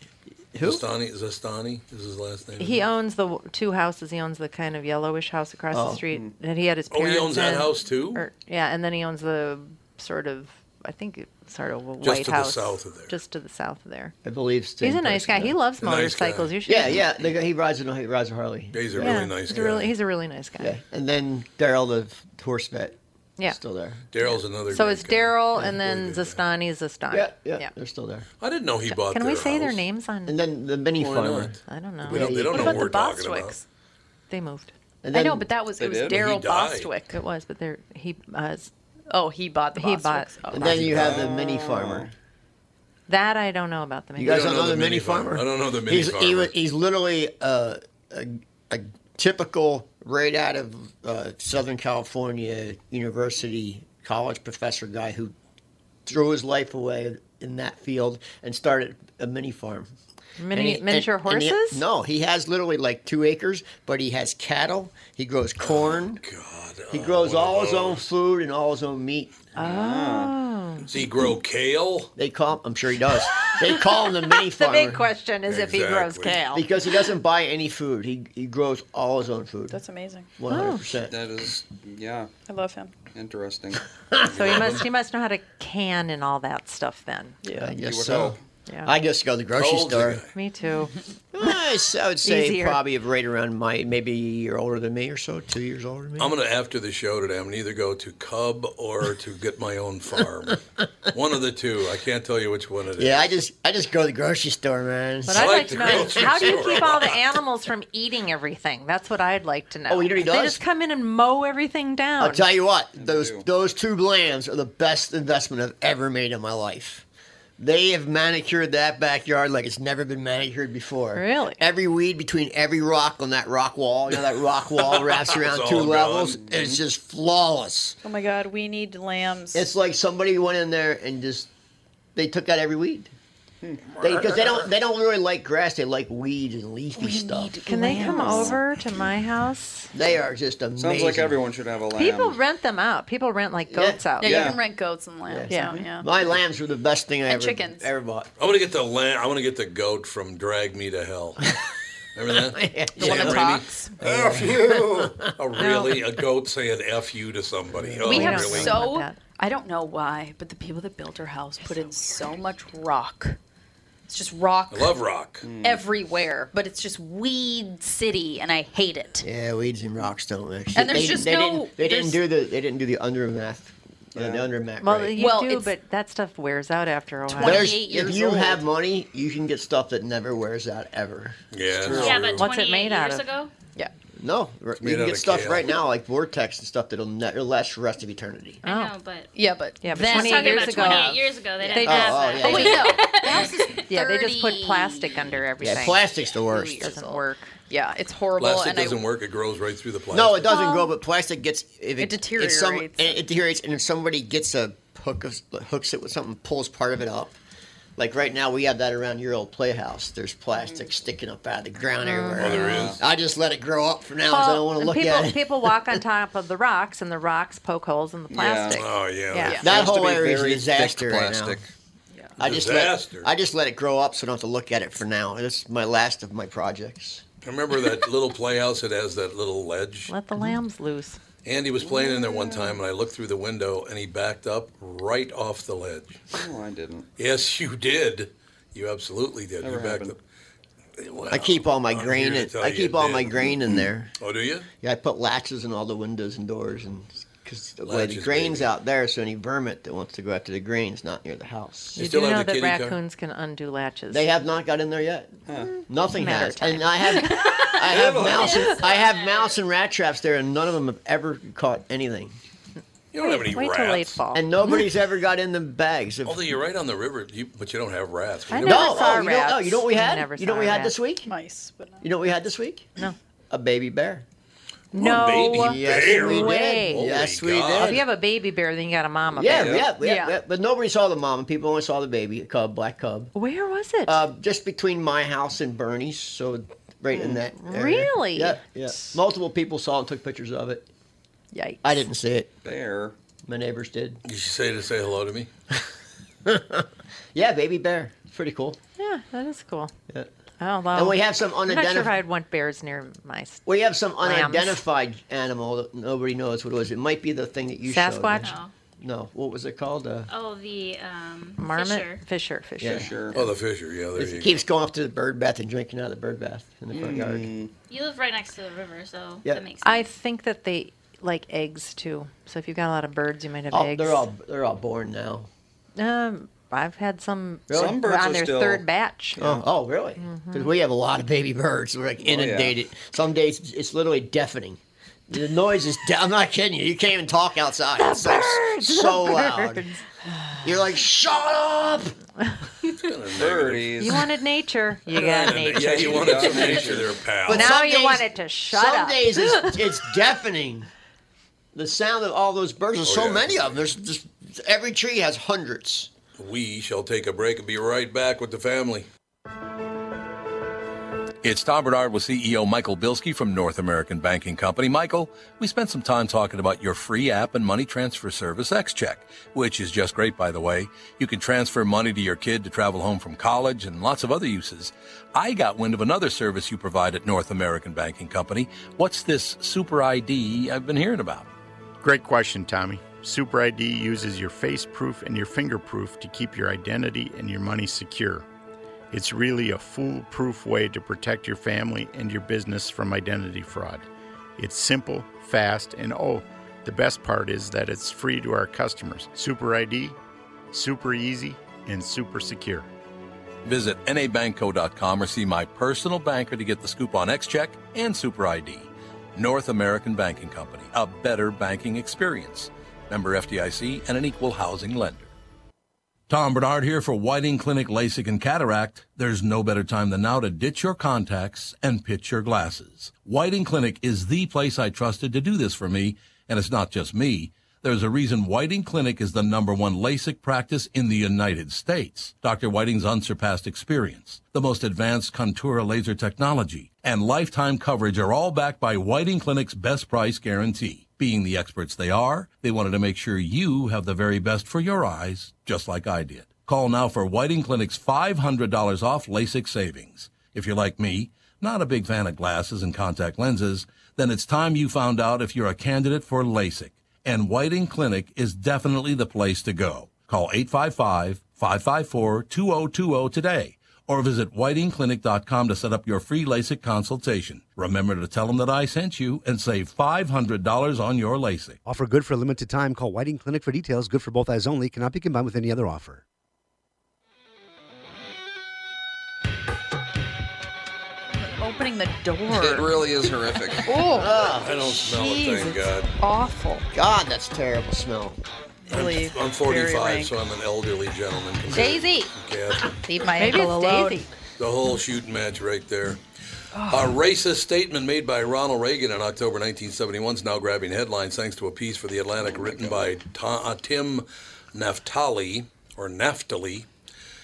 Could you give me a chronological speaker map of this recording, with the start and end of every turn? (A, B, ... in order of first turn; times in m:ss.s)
0:00.5-0:00.8 A
0:00.6-0:02.8 B
0:02.6-0:14.2 C
0:05.7-0:06.0 A
0:06.9-0:08.2 B
0:12.0-0:13.1 B
0:14.2-0:15.6 A
0:14.8-0:17.0 C
0:15.8-0:16.6 B
0:16.7-0:19.6 A
0:18.7-0:19.9 B
0:19.0-0:20.8 C
0:20.6-0:24.0 A
0:24.1-0:26.4 B
0:24.7-0:27.7 C
0:27.1-0:28.3 A
0:28.4-0:29.8 B
0:28.9-0:30.4 C
0:30.3-0:32.9 A
0:31.0-0:33.6 B
0:31.7-0:32.4 C
0:32.4-0:33.6 D
0:34.3-0:34.7 C
0:35.0-0:35.5 A
0:35.1-0:37.2 D
0:35.8-0:36.2 E
0:36.1-0:36.9 B
0:37.1-0:38.7 C
0:39.1-0:40.8 D
0:39.8-0:41.2 C
0:40.5-0:42.1 A
0:40.8-0:42.1 E
0:43.1-0:44.5 C
0:44.2-0:55.3 A
0:44.2-0:46.5 B
0:56.1-0:59.9 A
1:00.4-1:01.8 C
1:00.5-1:06.2 A
1:05.6-1:08.0 B
1:06.9-1:09.3 A
1:09.6-1:10.9 C
1:09.6-1:10.4 E
1:10.9-1:12.1 B
1:12.2-1:15.1 A
1:14.5-1:16.7 C
1:15.5-1:16.4 B
1:16.5-1:19.8 A
1:19.7-1:20.3 D
1:20.4-1:21.2 A
1:20.5-1:20.8 C
1:21.1-1:22.3 E
1:22.5-1:23.0 D
1:23.1-1:23.8 E
1:24.2-1:27.4 C
1:24.3-1:24.9 B
1:27.4-1:27.8 D
1:27.5-1:30.2 A
1:27.8-1:28.4 E
1:29.6-1:30.3 B
1:30.3-1:31.0 C
1:31.3-1:36.4 A
1:32.2-1:32.8 C
1:36.2-1:43.4 B
1:43.0-1:47.1 A
1:45.3-1:52.5 C
1:45.3-1:47.2 B
1:49.9-1:50.6 A
1:52.2-1:57.1 A
1:53.0-1:53.4 E
1:57.6-2:08.0 A
2:01.2-2:01.6 C
2:04.8-2:06.4 B
2:06.4-2:06.8 E
2:08.0-2:09.7 D
2:09.5-2:11.5 A
2:12.2-2:13.1 A
2:13.6-2:14.6 E
2:14.0-2:18.4 A
2:17.0-2:18.5 D
2:17.6-2:19.9 C
2:18.0-2:18.5 E
2:19.9-2:21.4 A
2:20.8-2:22.4 E
2:22.0-2:24.5 C
2:23.7-2:24.5 A
2:24.2-2:26.1 D
2:24.2-2:24.6 E
2:25.3-2:28.3 A
2:25.5-2:25.8 C
2:27.3-2:27.9 D
2:28.4-2:31.5 B
2:32.2-2:38.8 B
2:32.4-2:33.5 A
2:33.0-2:34.0 D
2:34.0-2:35.4 A
2:35.6-2:36.0 C
2:37.8-2:38.5 A
2:38.0-2:43.4 D
2:38.1-2:39.2 C
2:44.1-2:45.0 D
2:44.7-2:45.5 B
2:45.4-2:45.8 E
2:45.6-2:49.3 D
2:49.2-2:55.2 A
2:50.8-2:52.2 D
2:54.2-2:54.5 E
2:54.8-2:57.7 C
2:55.2-2:55.7 D
2:57.3-2:58.6 D
2:57.4-3:02.4 A
3:01.5-3:02.4 B
3:01.8-3:02.1 E
3:01.9-3:03.5 F
3:02.4-3:03.3 C
3:04.2-3:08.6 A
3:04.8-3:05.7 B
3:08.6-3:09.3 F
3:08.6-3:08.9 C
3:09.3-3:15.4 D
3:09.8-3:16.1 C
3:09.9-3:13.9 F
3:11.7-3:13.0 A
3:15.6-3:16.9 A
3:16.3-3:19.0 D
3:16.7-3:17.5 C
3:18.4-3:20.4 B
3:20.1-3:27.4 A
3:20.5-3:20.9 D
3:22.0-3:23.2 D
3:28.0-3:36.0 A
3:32.0-3:32.8 C
3:32.4-3:33.0 B
3:32.6-3:33.0 E
3:34.3-3:39.6 C
3:38.3-3:38.8 E
3:38.7-3:39.6 B
3:39.4-3:39.8 D
3:39.6-3:41.7 E
3:39.6-3:41.6 A
3:42.4-3:47.2 A
3:42.4-3:43.3 B
3:47.4-3:50.1 B
3:50.1-3:51.2 C
3:51.4-3:56.2 B
3:51.8-3:52.2 E
3:56.4-3:57.1 E
3:57.2-4:00.2 B
3:59.6-4:00.2 E
4:01.0-4:03.5 B
4:01.3-4:04.1 A
4:04.2-4:04.7 B
4:04.8-4:12.0 A
4:07.8-4:08.7 B
4:12.0-4:13.0 B
4:12.0-4:14.3 C
4:14.1-4:22.4 A
4:15.7-4:17.2 C
4:17.8-4:18.8 E
4:18.2-4:19.6 F
4:23.1-4:24.2 B
4:23.2-4:24.5 C
4:24.3-4:26.5 A
4:26.2-4:29.1 B
4:28.5-4:30.9 C
4:28.6-4:31.3 A
4:31.2-4:32.1 D
4:32.0-4:32.9 A
4:33.5-4:34.2 A
4:34.9-4:37.0 C
4:35.0-4:38.0 B
4:35.5-4:38.0 A
4:37.8-4:39.8 C
4:39.3-4:43.3 A
4:39.4-4:39.9 E
4:40.0-4:40.4 D
4:43.4-4:44.2 C
4:44.1-4:50.9 A
4:47.6-4:48.6 C
4:51.8-4:52.5 A
4:52.6-4:53.2 E
4:53.5-4:54.2 A
4:54.3-4:55.5 B
4:56.4-4:58.8 A
4:59.0-4:59.9 C
5:00.6-5:03.7 C
5:00.9-5:02.2 A
5:03.7-5:10.3 A
5:04.2-5:04.8 C
5:07.9-5:08.6 C
5:08.4-5:08.7 F
5:10.3-5:12.2 F
5:11.6-5:13.5 C
5:12.8-5:13.1 A
5:12.8-5:13.4 E
5:13.3-5:14.6 B
5:14.2-5:17.5 A
5:16.9-5:17.7 E
5:17.9-5:20.1 F
5:19.8-5:24.3 C
5:23.7-5:25.5 A
5:26.0-5:29.4 C
5:27.7-5:28.0 A
5:27.7-5:28.8 E
5:29.4-5:29.6 E
5:29.4-5:39.9 A
5:30.2-5:30.7 C
5:32.2-5:32.7 E
5:38.0-5:40.6 C
5:40.6-5:42.2 A
5:42.9-5:44.1 B
5:43.3-5:44.3 E
5:44.0-5:46.8 C
5:45.2-5:47.7 B
5:45.2-5:47.2 E
5:47.5-5:50.9 A
5:47.5-5:50.0 C
5:51.7-5:56.1 A
5:53.0-5:53.8 B
5:56.4-5:59.1 B
6:01.4-6:21.5 B
6:22.0-6:28.5 G
6:29.1-6:40.2 G
6:40.7-6:42.9 G
6:43.6-6:55.3 B
6:56.3-7:51.8 B
7:51.8-7:56.2 H
8:01.4-8:03.0 D
8:02.5-8:04.0 E
8:03.8-8:06.9 D
8:04.1-8:04.7 A
8:04.6-8:06.1 B
8:06.9-8:08.4 A
8:08.9-8:10.3 D
8:08.9-8:13.0 B
8:11.7-8:12.3 D
8:13.0-8:14.2 D
8:13.4-8:14.3 C
8:14.6-8:16.2 B
8:16.8-8:17.2 D
8:16.9-8:26.9 B
8:22.5-8:23.0 E